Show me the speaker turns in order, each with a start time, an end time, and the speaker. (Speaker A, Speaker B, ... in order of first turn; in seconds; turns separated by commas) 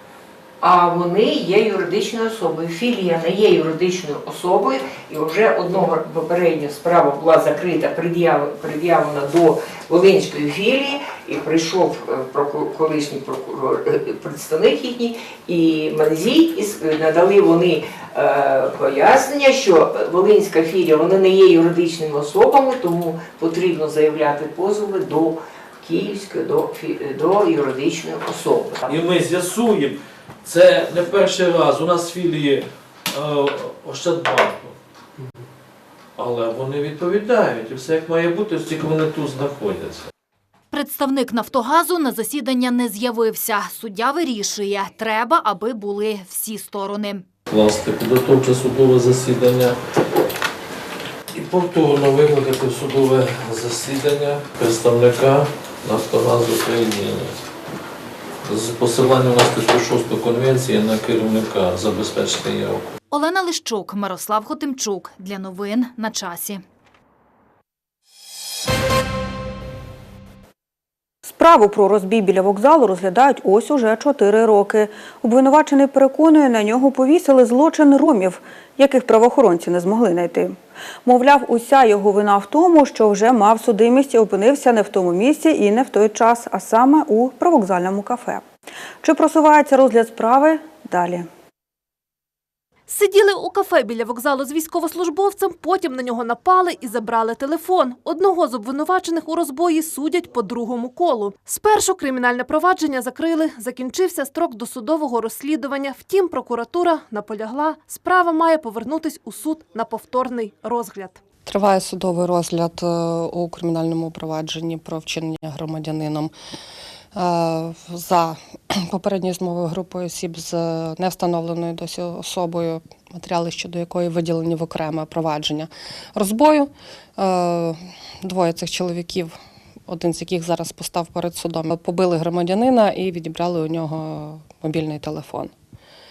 Speaker A: 0.6-29.0, Speaker B: 28.9-34.8, Speaker B: 36.2-40.1, Speaker C: 40.7-47.3, Speaker B: 47.5-49.8, Speaker B: 51.3-57.4, Speaker B: 58.5-62.9, Speaker C: 63.1-66.6, Speaker D: 71.2-88.5, Speaker D: 89.0-91.3, Speaker E: 92.9-111.2, Speaker F: 111.5-116.3, Speaker F: 117.1-135.5